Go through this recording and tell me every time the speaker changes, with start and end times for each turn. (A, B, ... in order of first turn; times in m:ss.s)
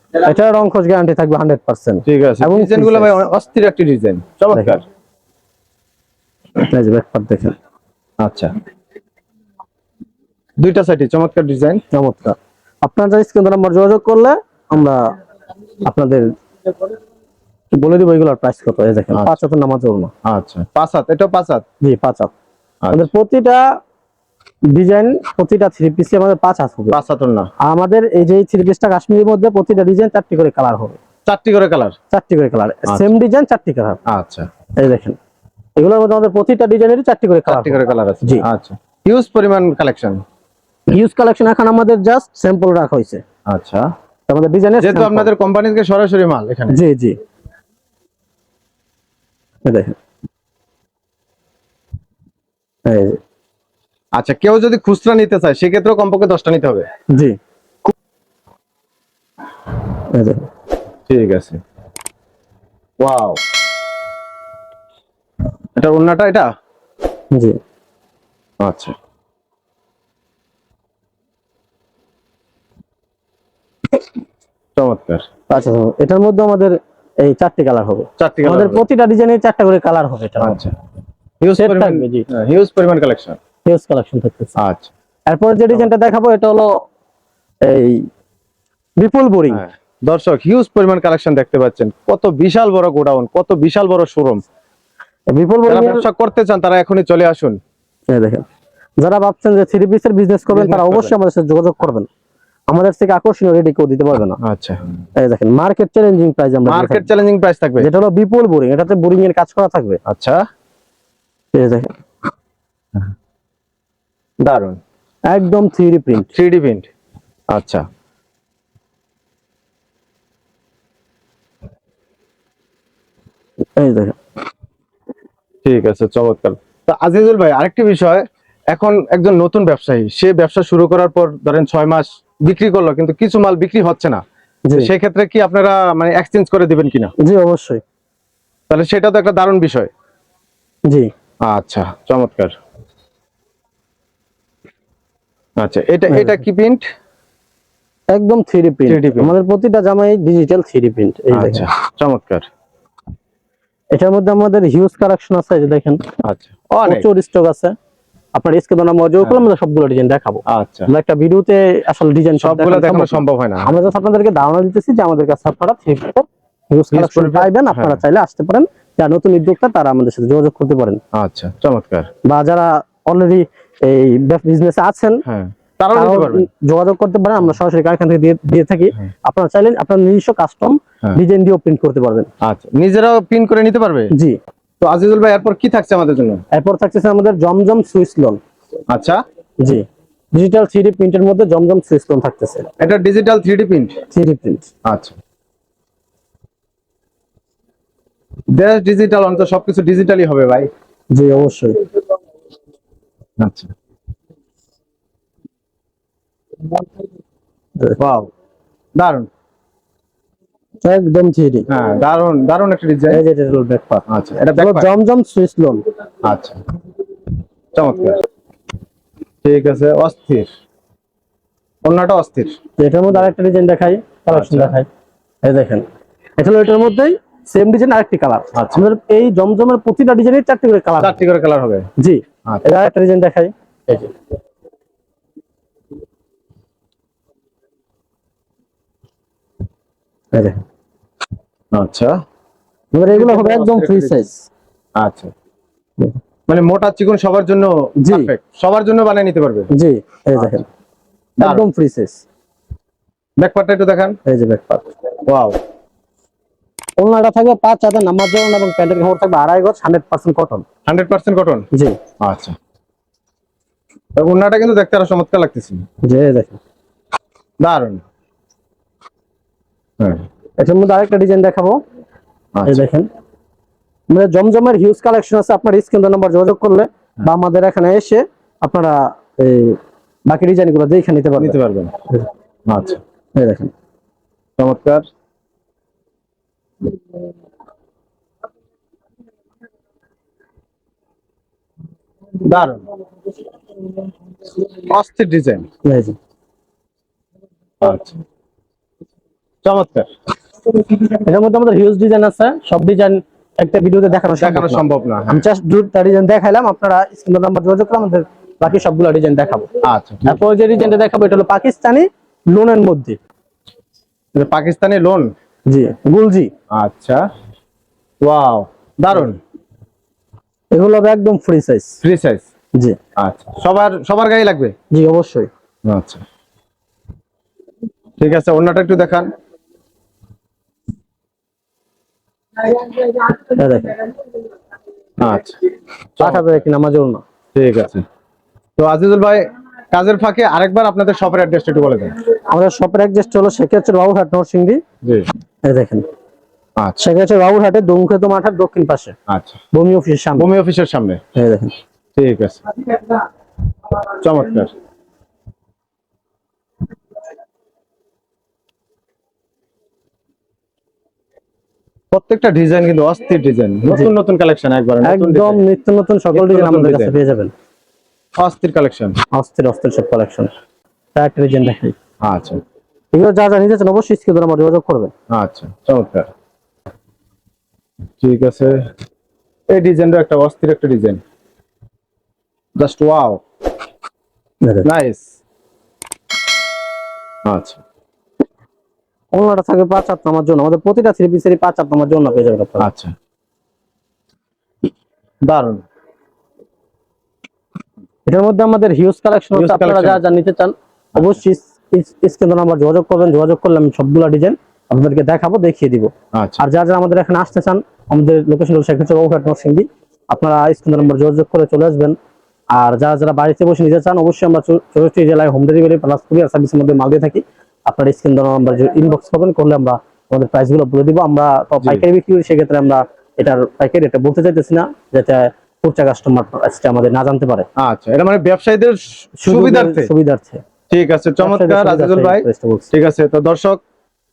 0:00.2-0:03.2 A
0:02.1-0:04.8 B
0:04.5-0:04.8 A
0:06.6-0:07.6 A
0:08.2-0:08.5 B
0:10.6-0:11.8 B
0:11.9-0:15.1 A
0:15.8-0:16.3 A
0:17.7-0:20.1 A
0:19.1-0:19.4 B
0:20.2-0:21.6 B
0:21.8-0:22.3 A
0:22.8-0:23.1 B
0:22.9-0:23.6 A
0:24.7-0:27.0 A
0:26.9-0:27.5 B
0:27.6-0:31.0 A
0:31.3-0:32.0 B
0:32.1-0:34.0 A
0:32.9-0:33.1 B
0:34.1-0:34.5 B
0:34.8-0:35.2 A
0:35.8-0:38.4 A
0:37.5-0:40.2 B
0:40.9-0:43.2 A
0:43.5-0:43.9 B
0:44.3-0:45.3 A
0:44.8-0:46.8 B
0:46.7-0:47.2 A
0:49.6-0:50.0 A
0:52.9-0:53.2 A
0:54.2-0:56.9 B
0:57.1-0:57.4 A
1:00.1-1:00.5 A
1:01.1-1:01.6 B
1:03.0-1:03.4 B
1:05.8-1:06.5 B
1:07.3-1:07.6 A
1:08.6-1:09.0 B
1:14.8-1:15.2 B
1:15.5-1:20.6 A
1:18.2-1:18.8 B
1:20.4-1:20.8 B
1:21.4-1:23.4 B
1:21.6-1:22.3 A
1:23.7-1:24.6 A
1:24.6-1:24.9 B
1:25.3-1:26.7 A
1:27.6-1:28.1 A
1:29.0-1:29.6 A
1:29.5-1:34.4 B
1:35.3-1:36.0 A
1:35.7-1:37.6 B
1:38.1-1:38.4 A
1:39.0-1:42.1 A
1:40.5-1:41.1 B
1:42.7-1:44.4 A
1:44.4-1:44.8 B
1:45.2-1:47.1 A
1:46.7-1:47.9 B
1:47.8-1:50.0 A
1:50.1-1:50.4 B
1:51.5-1:51.9 A
1:54.4-1:54.8 B
1:55.3-1:56.3 A
1:56.3-1:56.9 B
1:57.5-1:57.8 B
2:03.8-2:04.2 A
2:05.6-2:14.2 B
2:14.7-2:17.1 B
2:17.2-2:17.8 A
2:18.7-2:19.9 B
2:21.4-2:22.5 B
2:25.6-2:26.9 B
2:26.1-2:26.4 A
2:28.1-2:31.7 A
2:28.9-2:29.3 B
2:31.3-2:32.5 B
2:33.9-2:36.0 A
2:36.2-2:37.1 B
2:36.8-2:37.8 A
2:38.4-2:51.0 A
2:40.5-2:40.9 B
2:42.4-2:43.7 B
2:46.9-2:48.0 B
2:51.1-2:52.1 B
2:52.2-2:55.2 A
2:55.3-2:56.5 B
2:55.9-3:02.3 A
3:02.4-3:04.1 B
3:04.1-3:04.4 A
3:04.8-3:06.4 B
3:06.5-3:08.4 A
3:08.9-3:09.2 B
3:09.6-3:12.7 A
3:12.8-3:14.0 B
3:14.1-3:14.7 A
3:14.8-3:15.2 B
3:18.5-3:20.7 B
3:21.1-3:21.8 A
3:23.4-3:23.7 B
3:28.0-3:28.3 B
3:29.0-3:29.3 B
3:30.8-3:31.7 A
3:31.7-3:33.2 B
3:33.1-3:34.0 A
3:34.1-3:34.9 B
3:34.6-3:35.8 A
3:36.3-3:36.6 B
3:37.7-3:38.2 B
3:39.4-3:40.5 B
3:41.8-3:42.6 B
3:42.8-3:44.9 A
3:44.3-3:44.8 B
3:45.4-3:45.8 A
3:46.4-3:51.2 A
3:48.6-3:48.8 B
3:51.0-3:51.9 B
3:52.0-3:54.1 A
4:01.7-4:02.2 B
4:02.9-4:04.5 A
4:03.1-4:04.2 B
4:05.0-4:05.3 B
4:06.5-4:09.7 B
4:08.0-4:08.3 A
4:09.7-4:10.7 A
4:11.4-4:12.2 A
4:13.4-4:14.2 B
4:14.3-4:14.9 A
4:15.3-4:15.6 B
4:17.0-4:20.6 A
4:20.9-4:21.7 B
4:21.7-4:22.0 A
4:22.2-4:22.6 B
4:24.2-4:25.8 B
4:26.0-4:26.6 A
4:27.6-4:28.0 B
4:30.0-4:30.2 B
4:30.6-4:31.8 A
4:32.6-4:32.9 B
4:32.7-4:33.1 A
4:34.1-4:41.6 A
4:41.4-4:41.9 B
4:42.7-4:43.0 B
4:43.4-4:43.7 A
4:44.6-4:45.0 B
4:52.4-4:52.8 B
4:54.6-4:55.7 B
4:55.8-4:56.2 A
4:57.8-4:58.2 B
4:59.6-5:00.1 B
5:00.9-5:09.7 A
5:04.4-5:05.4 B
5:09.8-5:10.4 B
5:10.3-5:13.2 A
5:14.4-5:15.3 B
5:15.7-5:16.5 A
5:16.7-5:17.2 B
5:18.2-5:19.4 B
5:20.7-5:22.0 A
5:22.0-5:22.4 B
5:23.2-5:24.7 B
5:24.9-5:25.5 A
5:25.9-5:26.2 B
5:28.2-5:29.3 B
5:32.7-5:34.0 A
5:35.2-5:35.6 B
5:36.2-5:36.6 B
5:36.2-5:37.2 A
5:37.6-5:38.0 B
5:38.8-5:42.2 B
5:42.5-5:44.8 A
5:45.0-5:45.3 B
5:45.6-5:46.0 A
5:47.0-5:49.2 A
5:49.3-5:49.6 B
5:49.7-5:50.5 A
5:50.4-5:51.2 B
5:51.4-5:51.7 A
5:52.2-5:52.7 B
5:54.0-5:54.7 B
6:02.1-6:05.6 B
6:05.0-6:07.5 A
6:06.3-6:07.2 B
6:08.4-6:09.2 B
6:09.3-6:10.5 A
6:11.2-6:12.0 A
6:12.2-6:12.6 B
6:13.1-6:15.1 A
6:15.3-6:16.3 B
6:18.2-6:18.8 B
6:19.7-6:21.2 B
6:22.8-6:23.4 B
6:24.8-6:25.3 B
6:27.5-6:27.8 B
6:29.3-6:32.9 A
6:32.8-6:33.1 B
6:35.5-6:35.8 B
6:38.3-6:52.2 A
6:39.6-6:40.2 B
6:46.3-6:46.6 B
6:52.7-7:07.7 A
7:07.8-7:10.1 B
7:09.4-7:10.6 A
7:10.9-7:13.8 B
7:11.4-7:12.9 A